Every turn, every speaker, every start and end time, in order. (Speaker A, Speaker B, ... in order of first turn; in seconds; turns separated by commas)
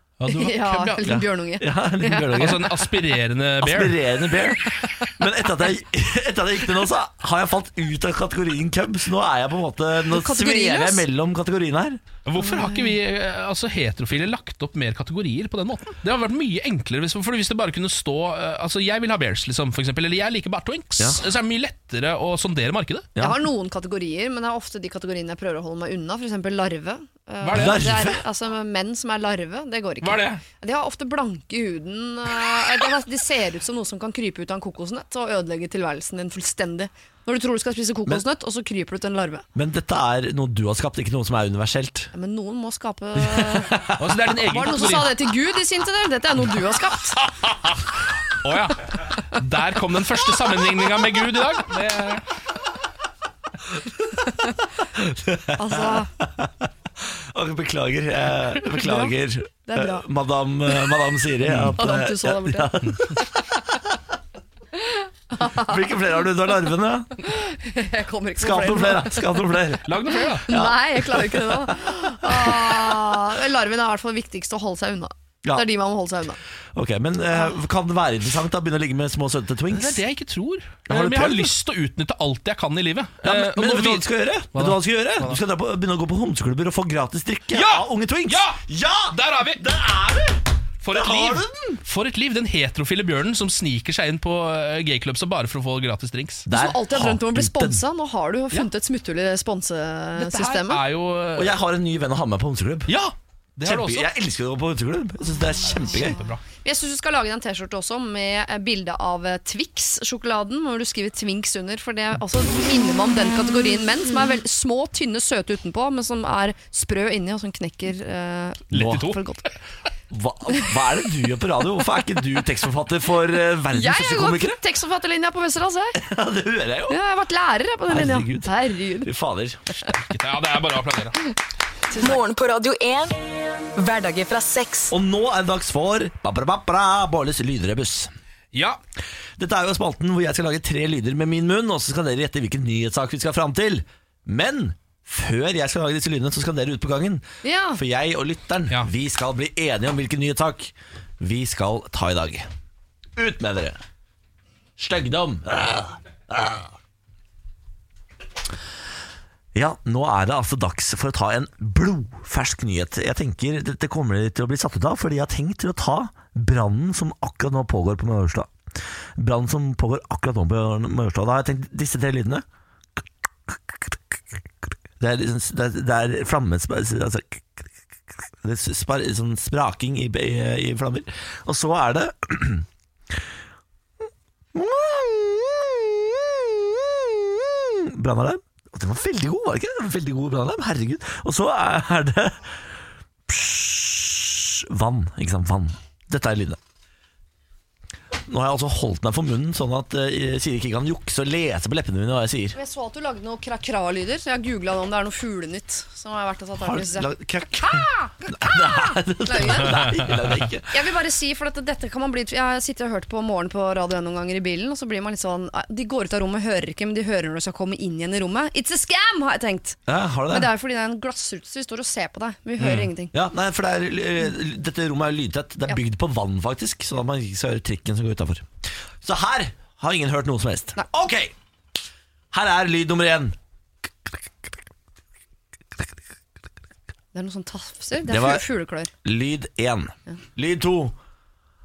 Speaker A: 0.2-1.0, Speaker B: 0.3-2.7, Speaker C: 1.0-2.7, Speaker A: 2.3-4.0, Speaker C: 3.6-12.0, Speaker B: 10.1-11.0, Speaker A: 12.2-23.1, Speaker B: 12.5-12.7, Speaker B: 23.2-39.4, Speaker A: 27.4-27.9, Speaker C: 27.5-28.2, Speaker A: 30.0-30.4, Speaker C: 39.5-42.1, Speaker B: 42.1-43.7, Speaker C: 43.2-44.0, Speaker A: 44.0-45.1, Speaker B: 44.5-47.2, Speaker A: 48.4-52.2, Speaker C: 55.0-55.9, Speaker B: 55.5-56.1, Speaker C: 57.3-63.2, Speaker B: 59.7-60.0, Speaker A: 61.5-61.7, Speaker B: 61.8-63.0, Speaker B: 64.8-65.7, Speaker C: 65.4-67.2, Speaker B: 67.2-69.4, Speaker C: 68.4-69.8, Speaker A: 69.8-70.5, Speaker B: 70.4-76.4, Speaker C: 70.5-71.3, Speaker C: 72.3-72.9, Speaker C: 76.7-80.0, Speaker A: 79.7-85.4, Speaker C: 80.9-81.5, Speaker C: 83.2-90.4, Speaker A: 87.5-89.8, Speaker A: 90.8-96.5, Speaker C: 90.9-91.8, Speaker C: 96.5-97.8, Speaker B: 96.5-100.8, Speaker A: 100.2-101.5, Speaker C: 101.3-102.9, Speaker A: 102.9-104.1, Speaker C: 103.6-106.2, Speaker A: 105.8-106.4, Speaker B: 106.6-119.5, Speaker C: 118.7-119.0, Speaker A: 118.7-119.2, Speaker C: 120.1-124.6, Speaker B: 123.7-126.0, Speaker C: 126.0-127.0, Speaker B: 126.9-129.1, Speaker C: 127.9-129.6, Speaker A: 129.9-131.2, Speaker D: 131.9-133.2, Speaker D: 133.7-134.9, Speaker C: 134.9-138.1, Speaker A: 138.5-138.8, Speaker C: 139.4-147.2, Speaker B: 147.4-147.8, Speaker C: 147.7-152.5, Speaker C: 153.2-153.8, Speaker C: 154.8-156.7, Speaker C: 159.5-168.5, Speaker C: 169.2-172.4, Speaker C: 173.5-173.9, Speaker C: 175.0-177.6, Speaker C: 178.4-182.7, Speaker C: 184.5-192.5, Speaker C: 193.3-196.6, Speaker C: 198.3-202.6, Speaker B: 202.5-210.1, Speaker C: 206.6-210.7, Speaker B: 210.7-223.1, Speaker C: 219.9-220.5, Speaker A: 222.6-222.9, Speaker C: 223.1-228.5, Speaker C: 229.0-231.3, Speaker C: 232.3-233.3, Speaker B: 237.1-238.9, Speaker C: 238.1-238.4, Speaker C: 239.0-240.9